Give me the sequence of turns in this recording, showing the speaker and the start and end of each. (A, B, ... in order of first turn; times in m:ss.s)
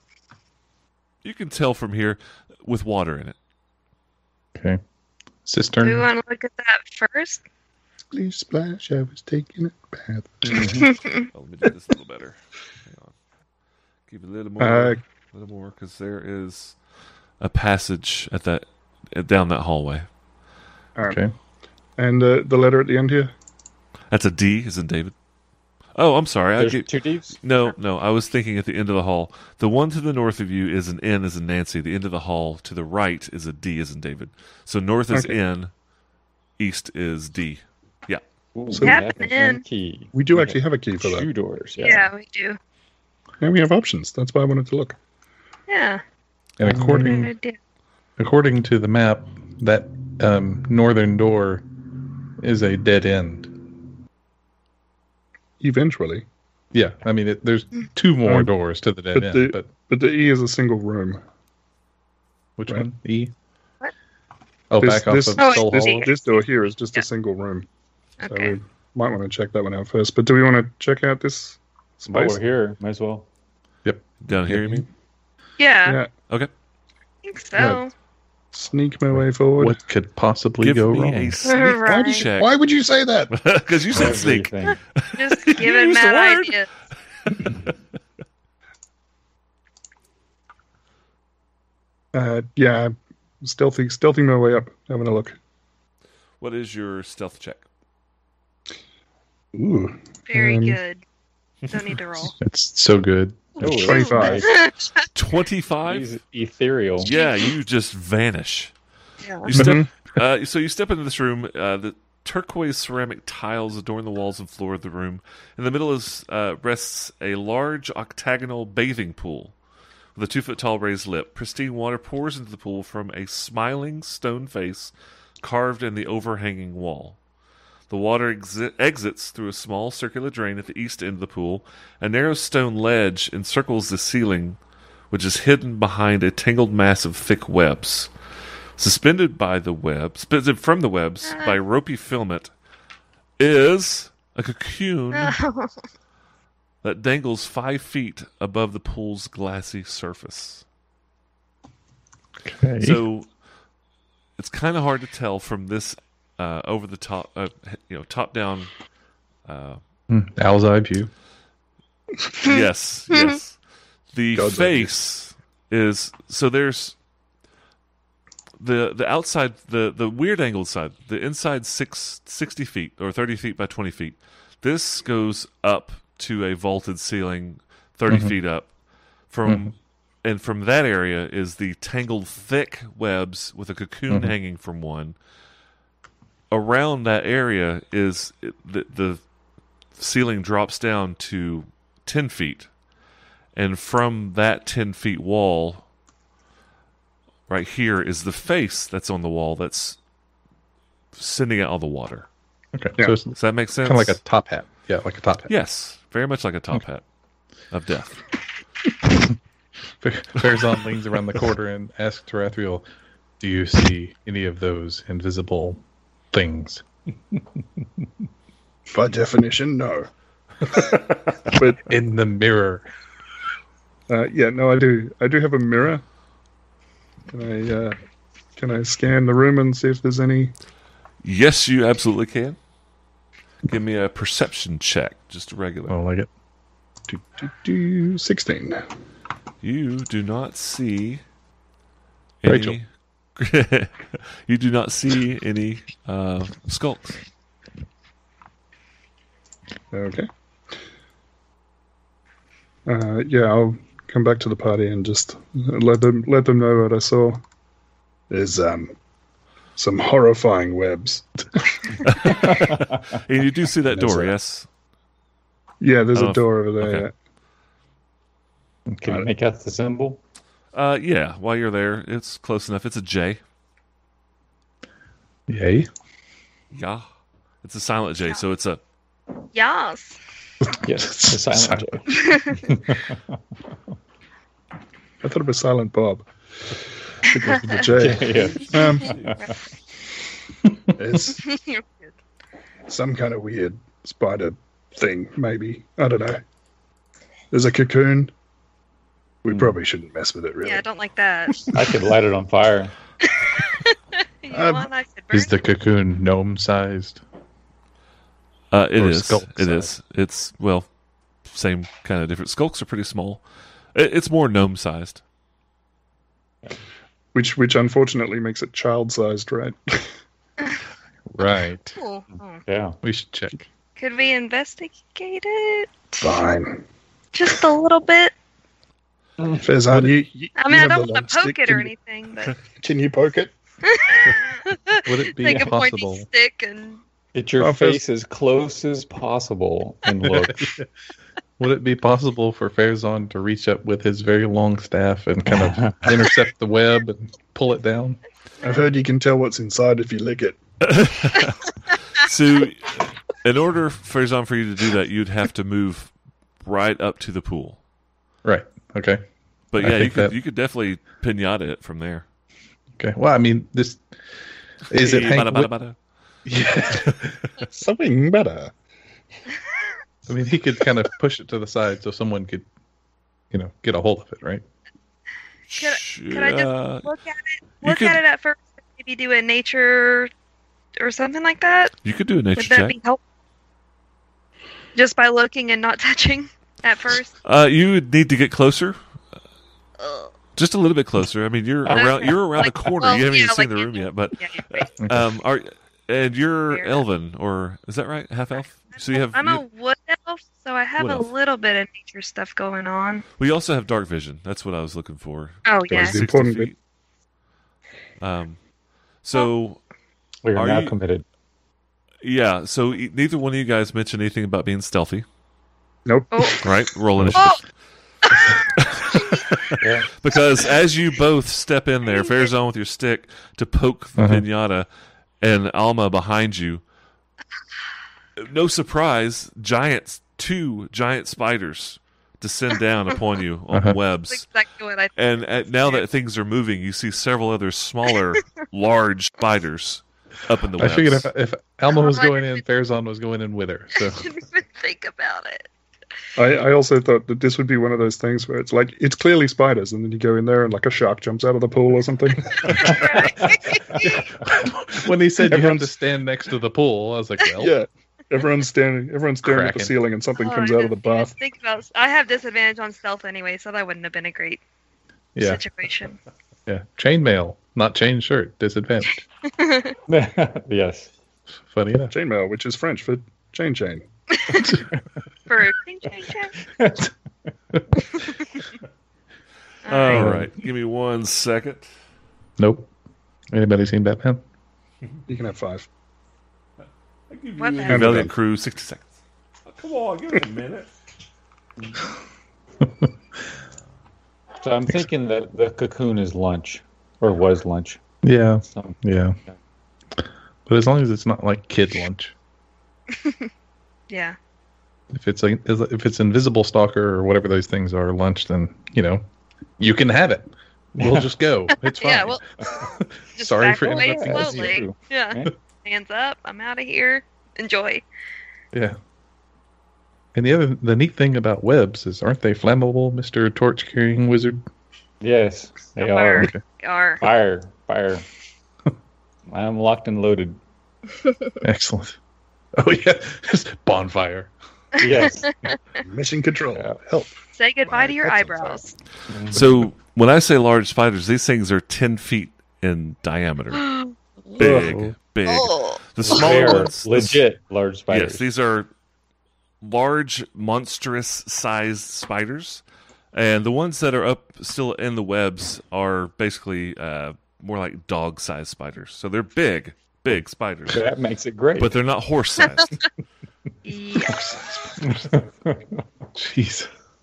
0:01.2-0:03.4 A
0:05.4-0:06.1 B
0:05.8-0:07.4 C
0:08.1-0:10.9 D
0:10.5-0:10.8 B
0:10.6-0:11.3 C
0:11.3-0:13.1 A
0:14.1-0:16.8 A
0:14.6-0:15.0 D
0:17.4-0:20.0 A
0:21.0-0:21.2 D
0:21.0-0:21.3 B
0:22.0-0:23.3 D
0:24.1-0:25.1 A
0:25.9-0:35.7 A
0:26.6-0:27.4 E
0:35.1-0:35.4 D
0:36.6-0:38.2 A
0:38.5-0:42.1 E
0:38.7-0:39.0 D
0:38.8-0:39.6 C
0:40.1-0:41.3 D
0:41.8-0:42.6 C
0:43.4-0:45.0 D
0:45.7-0:46.0 C
0:46.6-0:47.3 B
0:46.6-0:47.3 D
0:47.0-0:47.6 C
0:48.2-0:51.6 B
0:52.4-0:53.6 B
0:55.6-0:56.2 D
0:56.7-0:59.7 B
0:58.2-0:58.5 D
0:59.1-1:01.2 D
1:02.6-1:03.3 B
1:04.7-1:06.1 B
1:04.8-1:07.7 D
1:05.4-1:06.1 C
1:08.2-1:08.5 C
1:08.3-1:12.4 D
1:12.1-1:13.3 E
1:13.8-1:14.8 B
1:14.2-1:14.8 A
1:15.6-1:16.0 C
1:17.2-1:17.9 C
1:17.6-1:17.8 D
1:18.5-1:19.8 D
1:19.1-1:21.3 B
1:20.6-1:22.6 A
1:21.4-1:22.2 C
1:21.8-1:23.3 D
1:23.3-1:26.6 A
1:23.9-1:24.8 E
1:25.2-1:26.7 C
1:27.2-1:27.6 A
1:32.1-1:35.4 D
1:36.4-1:37.6 A
1:39.5-1:40.8 D
1:40.3-1:41.0 C
1:41.7-1:42.3 C
1:42.2-1:44.0 B
1:43.6-1:44.6 E
1:43.6-1:44.6 D
1:43.8-1:45.1 C
1:45.1-1:46.1 A
1:45.8-1:47.1 E
1:47.0-1:48.7 A
1:47.0-1:47.5 C
1:49.2-1:49.5 C
1:49.5-1:59.5 A
1:49.5-1:49.9 D
2:00.2-2:07.2 A
2:07.9-2:14.6 A
2:15.1-2:18.1 A
2:18.8-2:22.5 A
2:21.2-2:21.6 C
2:23.4-2:25.4 A
2:25.1-2:25.7 C
2:26.8-2:30.6 A
2:32.4-2:33.0 B
2:32.8-2:33.3 A
2:34.4-2:38.7 A
2:39.4-2:39.8 A
2:40.1-2:41.1 B
2:42.4-2:43.6 A
2:42.4-2:43.4 C
2:44.1-2:47.0 A
2:44.3-2:44.9 D
2:48.6-2:58.7 A
2:58.1-2:58.3 B
2:59.3-3:05.2 A
2:59.4-2:59.7 B
3:04.1-3:04.3 B
3:06.5-3:09.2 A
3:10.0-3:12.7 A
3:13.5-3:15.8 A
3:17.5-3:20.0 A
3:21.2-3:22.3 A
3:22.7-3:25.5 B
3:23.3-3:24.2 A
3:25.5-3:27.0 A
3:27.7-3:28.2 A
3:30.0-3:32.8 B
3:33.4-3:35.8 B
3:36.3-3:36.8 B
3:38.9-3:40.1 D
3:40.6-3:41.9 D
3:41.8-3:42.8 B
3:44.1-3:46.0 D
3:47.3-3:48.0 D
3:48.6-3:50.5 D
3:51.2-3:52.6 A
3:53.6-3:56.0 A
3:55.9-3:56.3 B
3:57.1-3:58.8 D
3:59.6-4:01.2 A
4:02.4-4:07.2 A
4:02.4-4:02.8 B
4:09.9-4:10.3 D
4:12.8-4:17.4 D
4:18.3-4:18.9 D
4:19.8-4:22.1 D
4:22.0-4:24.7 A
4:22.5-4:23.0 E
4:23.9-4:24.3 D
4:25.8-4:27.1 D
4:26.1-4:27.1 A
4:28.9-4:29.2 B
4:29.0-4:30.2 E
4:30.7-4:33.4 A
4:35.5-4:35.9 B
4:36.7-4:37.0 A
4:37.6-4:38.8 A
4:39.5-4:40.2 C
4:40.8-4:43.2 E
4:41.0-4:41.9 B
4:42.1-4:42.7 C
4:45.2-4:46.2 D
4:47.3-4:49.2 D
4:47.3-4:47.8 C
4:47.4-4:48.2 B
4:47.9-4:49.5 E
4:49.0-4:49.3 A
4:51.0-4:51.4 D
4:51.4-4:52.1 C
4:52.9-4:56.4 D
4:57.5-4:58.3 D
4:59.4-5:00.8 D
5:00.6-5:01.6 C
5:01.7-5:02.9 E
5:03.2-5:05.5 C
5:04.5-5:04.9 D
5:05.3-5:07.2 B
5:08.7-5:10.9 A
5:09.0-5:09.9 B
5:11.5-5:13.4 A
5:13.9-5:15.2 A
5:17.3-5:20.1 D
5:21.3-5:22.0 B
5:22.0-5:22.6 C
5:22.6-5:23.0 E
5:23.0-5:23.7 B
5:24.0-5:26.4 C
5:26.2-5:26.8 D
5:27.3-5:28.3 C
5:29.4-5:29.7 E
5:29.6-5:31.9 D
5:30.6-5:32.6 C
5:32.8-5:33.5 D
5:33.8-5:37.0 C
5:35.0-5:36.3 B
5:35.4-5:35.7 E
5:37.3-5:40.7 E
5:37.6-5:38.0 D
5:40.2-5:40.9 B
5:41.6-5:48.2 B
5:45.5-5:46.1 E
5:48.6-5:50.6 D
5:50.8-5:56.1 A
5:56.6-5:57.8 A
5:58.4-5:59.2 B
5:59.7-6:02.2 A
5:59.8-6:00.3 B
6:03.0-6:04.1 B
6:04.9-6:05.7 B
6:04.9-6:06.0 A
6:06.4-6:07.4 B
6:07.7-6:08.7 D
6:10.3-6:12.6 B
6:13.5-6:14.6 B
6:15.7-6:20.3 C
6:15.7-6:17.1 A
6:17.8-6:18.2 A
6:21.0-6:21.9 C
6:22.0-6:22.9 A
6:22.6-6:23.2 C
6:24.9-6:27.3 C
6:27.4-6:29.0 A
6:30.0-6:30.3 C
6:30.5-6:39.6 A
6:31.9-6:34.9 C
6:35.0-6:35.3 B
6:36.7-6:37.0 C
6:39.0-6:43.2 C
6:41.0-6:41.3 A
6:43.4-6:46.8 A
6:45.6-6:46.2 C
6:45.9-6:46.7 D
6:48.2-6:48.6 A
6:49.2-6:49.8 A
6:50.4-6:51.2 E
6:50.5-6:50.9 A
6:52.2-6:55.2 A
6:56.0-6:56.6 D
6:56.3-6:56.7 C
6:56.6-6:57.6 A
6:57.2-6:57.5 B
6:57.3-6:57.6 C
6:58.2-6:59.5 C
6:58.8-7:04.9 A
6:59.8-7:00.1 E
7:02.1-7:02.5 C
7:04.2-7:04.4 B
7:05.4-7:06.8 A
7:08.4-7:14.4 A
7:13.7-7:14.0 B
7:14.3-7:15.1 C
7:15.2-7:21.3 A
7:15.8-7:16.0 C
7:20.8-7:24.3 B
7:21.9-7:22.6 C
7:24.0-7:25.7 C
7:26.4-7:33.3 D
7:32.6-7:34.4 C
7:34.0-7:37.8 B
7:35.4-7:35.9 D
7:37.6-7:41.3 D
7:39.4-7:40.0 B
7:40.4-7:44.6 C
7:45.4-7:45.6 B
7:45.4-7:46.2 C
7:46.7-7:49.2 B
7:49.6-7:50.0 C
7:50.1-7:51.1 E
7:51.7-7:52.1 B
7:52.1-7:54.0 D
7:54.3-7:54.8 C
7:54.6-7:54.9 B
7:55.5-7:56.6 C
7:56.7-7:57.1 E
7:59.8-8:00.3 C
7:59.9-8:01.9 A
8:00.1-8:00.5 B
8:02.6-8:02.9 B
8:03.5-8:04.4 B
8:05.3-8:05.9 D
8:07.3-8:09.2 A
8:07.6-8:08.1 C
8:07.9-8:08.3 D
8:09.7-8:10.9 A
8:12.8-8:13.1 B
8:14.6-8:18.0 E
8:18.2-8:19.4 B
8:18.7-8:19.0 E
8:20.2-8:22.3 B
8:23.1-8:23.5 C
8:24.1-8:24.4 C
8:25.1-8:29.2 B
8:29.8-8:34.8 B
8:31.0-8:31.3 E
8:31.9-8:38.0 C
8:33.8-8:35.5 E
8:40.3-8:44.6 B
8:45.2-8:46.5 E
8:46.0-8:47.2 C
8:47.2-8:48.2 E
8:49.5-8:50.6 E
8:51.6-8:52.2 B
8:52.7-8:54.5 B
8:55.0-8:55.7 E
8:55.0-8:55.8 C
8:56.0-8:58.8 D
8:56.7-8:57.0 E
8:57.5-8:58.9 C
8:59.3-8:59.6 E
8:59.5-9:03.8 A
9:03.7-9:04.6 C
9:04.6-9:07.4 A
9:04.6-9:04.9 D
9:04.6-9:05.1 B
9:05.4-9:06.8 C
9:06.2-9:08.4 E
9:08.1-9:08.9 A
9:09.8-9:12.8 A
9:13.3-9:21.0 A
9:20.9-9:21.9 E
9:21.8-9:23.0 A
9:23.8-9:24.4 C
9:24.2-9:25.3 B
9:25.0-9:26.0 E
9:26.3-9:26.9 B